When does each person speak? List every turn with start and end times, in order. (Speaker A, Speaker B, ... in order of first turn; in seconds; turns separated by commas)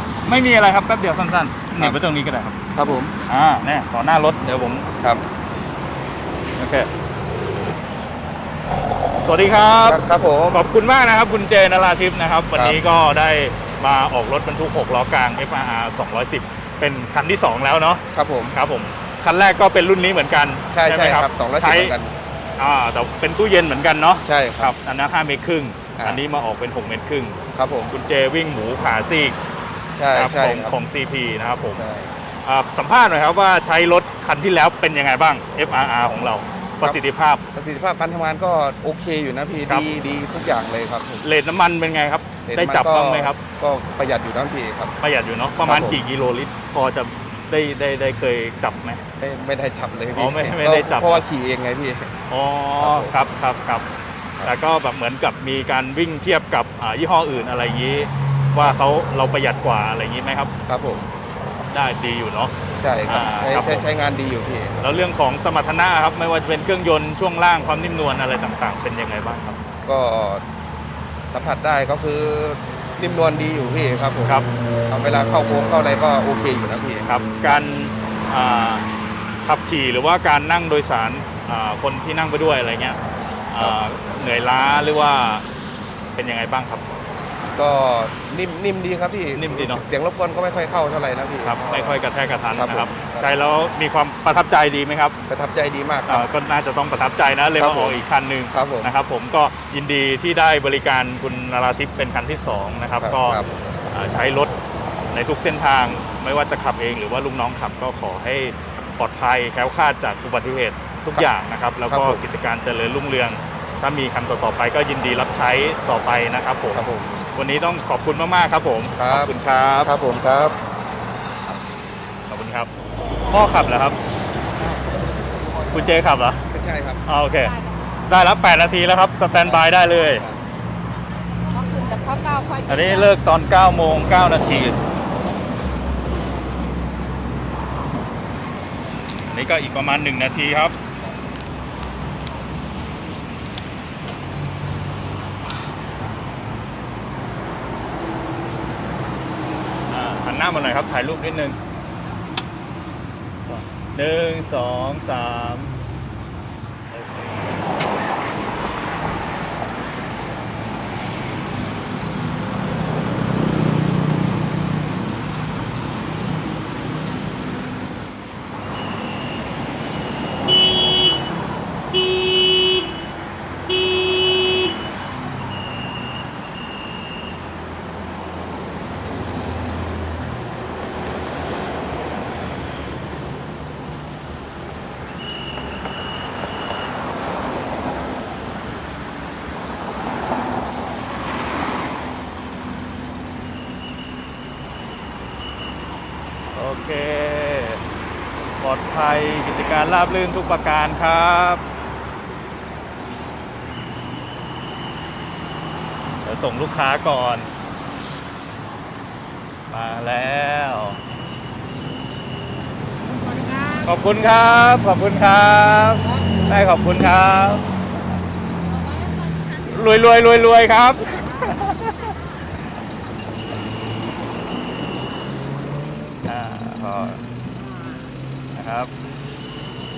Speaker A: 0.2-2.6, Speaker B: 2.7-3.2, Speaker A: 3.2-4.9, Speaker A: 6.6-6.9, Speaker A: 9.2-21.9, Speaker B: 9.8-10.6, Speaker B: 12.5-12.8, Speaker B: 18.1-18.6, Speaker B: 20.7-22.1, Speaker A: 22.6-27.4, Speaker B: 24.2-24.7, Speaker B: 25.9-26.2, Speaker B: 27.5-27.9, Speaker A: 27.9-29.4, Speaker B: 29.9-30.8, Speaker A: 30.1-31.8, Speaker B: 31.7-32.1, Speaker A: 32.4-37.4, Speaker B: 36.8-41.2, Speaker A: 41.2-43.4, Speaker B: 42.4-45.0, Speaker A: 45.0-49.0, Speaker B: 45.6-46.0, Speaker B: 49.2-52.1, Speaker A: 50.1-51.2, Speaker A: 52.3-53.9, Speaker B: 52.8-53.1, Speaker A: 54.4-60.5, Speaker B: 60.7-61.1, Speaker A: 61.7-62.5, Speaker B: 62.8-64.8, Speaker A: 63.1-63.9, Speaker A: 64.8-69.6, Speaker B: 69.8-70.4, Speaker B: 71.3-77.1, Speaker A: 77.0-78.9, Speaker A: 79.4-83.0, Speaker A: 83.5-85.5, Speaker A: 86.1-86.8, Speaker B: 87.5-92.0, Speaker A: 89.3-89.8, Speaker A: 91.4-95.2, Speaker B: 92.5-93.3, Speaker B: 95.3-96.3, Speaker A: 96.1-104.5, Speaker B: 97.6-98.9, Speaker B: 103.0-103.5, Speaker A: 105.1-116.8, Speaker B: 111.9-112.2, Speaker B: 116.7-117.3, Speaker A: 117.3-119.9, Speaker B: 119.0-120.6, Speaker A: 122.3-122.7, Speaker C: 123.1-123.4, Speaker A: 123.3-124.0, Speaker B: 124.6-125.8, Speaker A: 125.7-126.4, Speaker B: 126.5-127.0, Speaker A: 127.0-127.5, Speaker C: 127.3-128.0, Speaker A: 128.1-130.2, Speaker B: 129.3-130.4, Speaker C: 131.3-133.1, Speaker A: 132.7-134.8, Speaker A: 139.3-140.7, Speaker A: 149.9-151.6, Speaker A: 153.5-155.7, Speaker A: 156.9-157.4, Speaker A: 196.5-197.8, Speaker A: 198.6-201.6, Speaker A: 206.2-207.5, Speaker A: 209.7-211.0, Speaker C: 213.1-213.9, Speaker A: 213.8-217.6, Speaker C: 216.0-216.4, Speaker C: 218.7-220.2, Speaker A: 219.6-222.1, Speaker C: 221.2-221.6, Speaker A: 226.2-227.2, Speaker A: 228.6-228.9